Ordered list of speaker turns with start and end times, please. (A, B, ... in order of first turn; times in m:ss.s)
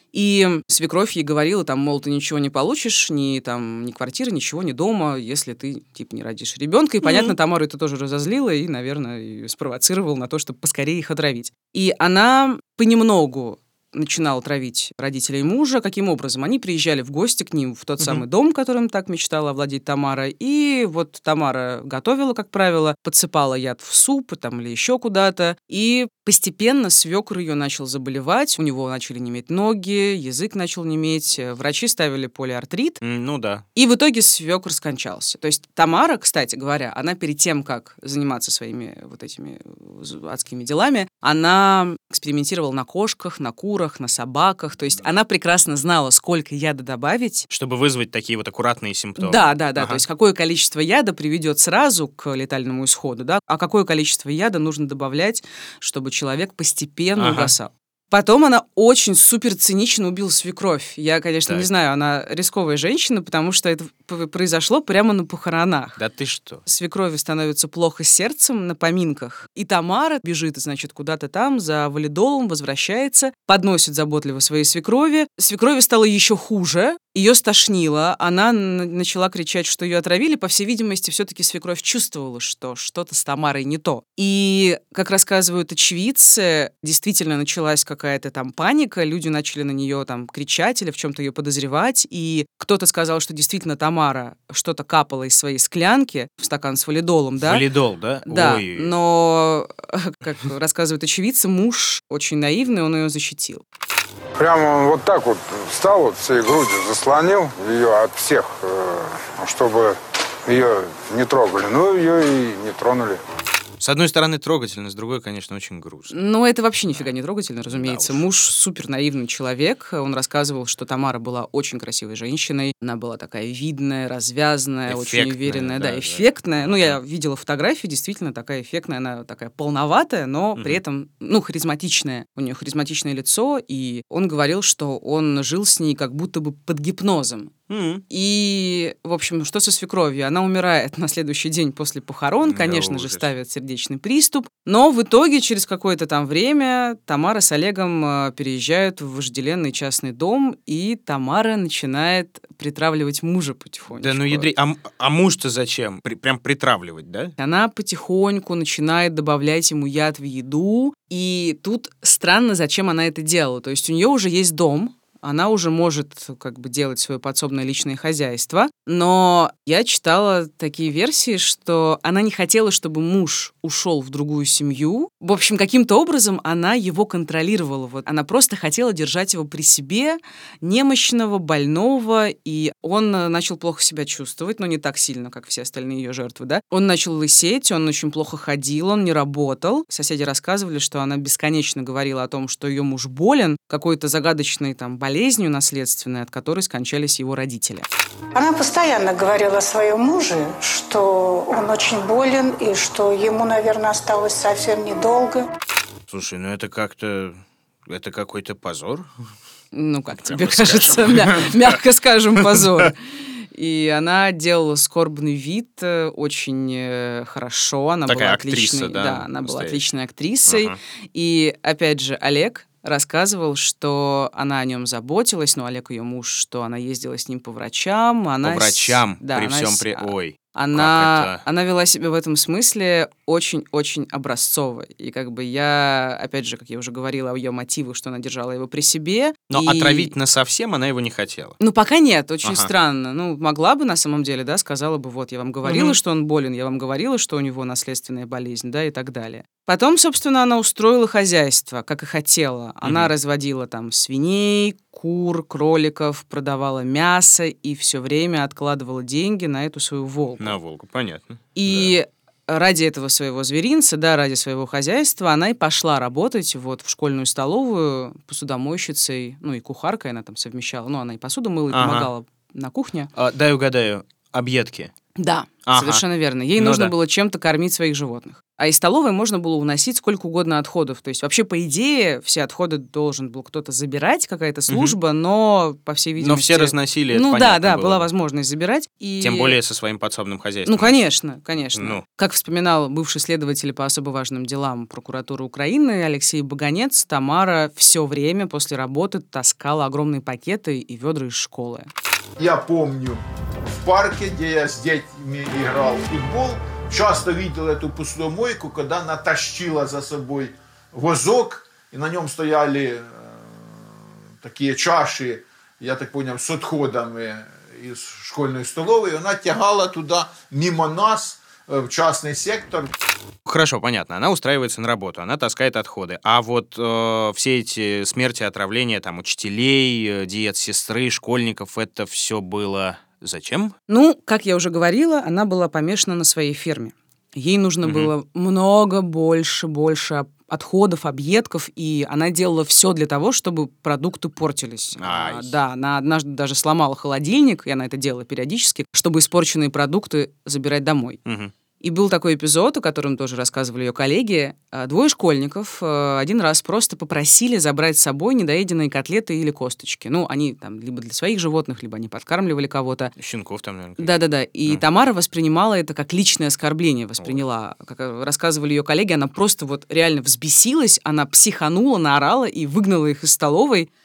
0:00.1-0:33.0 A
0:07.0-0:07.4 B
0:33.0-0:33.6 B
0:33.8-0:47.5 A
0:47.5-0:50.0 B
0:49.2-1:06.0 A
0:57.2-0:57.5 B
1:06.0-1:06.6 B
1:06.7-1:37.6 A
1:37.4-1:38.9 B
1:38.2-1:43.6 A
1:44.4-1:53.2 C
1:53.8-1:56.1 B
1:56.1-2:17.5 A
1:57.7-1:58.2 B
2:04.9-2:07.0 B
2:10.6-2:10.8 B
2:17.7-2:18.0 B
2:18.1-2:34.5 A
2:22.4-2:23.3 B
2:34.0-2:37.3 B
2:37.4-3:17.9 A
3:18.3-3:25.5 D
3:26.1-3:29.1 B
3:29.7-3:33.0 A
3:30.2-3:31.8 B
3:33.5-4:00.1 A
3:38.1-3:39.8 B
3:40.5-3:40.8 B
3:48.4-3:51.4 B
3:59.5-4:01.6 B
4:01.6-4:20.6 A
4:02.4-4:02.7 B
4:05.6-4:06.0 B
4:12.8-4:13.1 B
4:20.4-4:21.9 B
4:21.6-4:33.1 A
4:31.7-4:32.1 B
4:33.2-4:34.9 B
4:35.2-4:49.6 A
4:35.7-4:36.0 B
4:36.6-4:36.9 B
4:44.7-4:45.0 B
4:46.2-4:48.1 B
4:49.2-4:51.0 B
4:50.7-5:01.9 A
4:51.8-4:52.0 B
5:02.4-5:13.9 E
5:14.4-5:22.9 E
5:23.5-5:33.7 B
5:33.9-5:51.2 A
5:37.8-5:38.1 B
5:45.0-5:45.5 B
5:51.2-5:51.5 B
5:51.8-6:03.1 A
6:03.2-6:04.8 B
6:04.0-6:13.9 A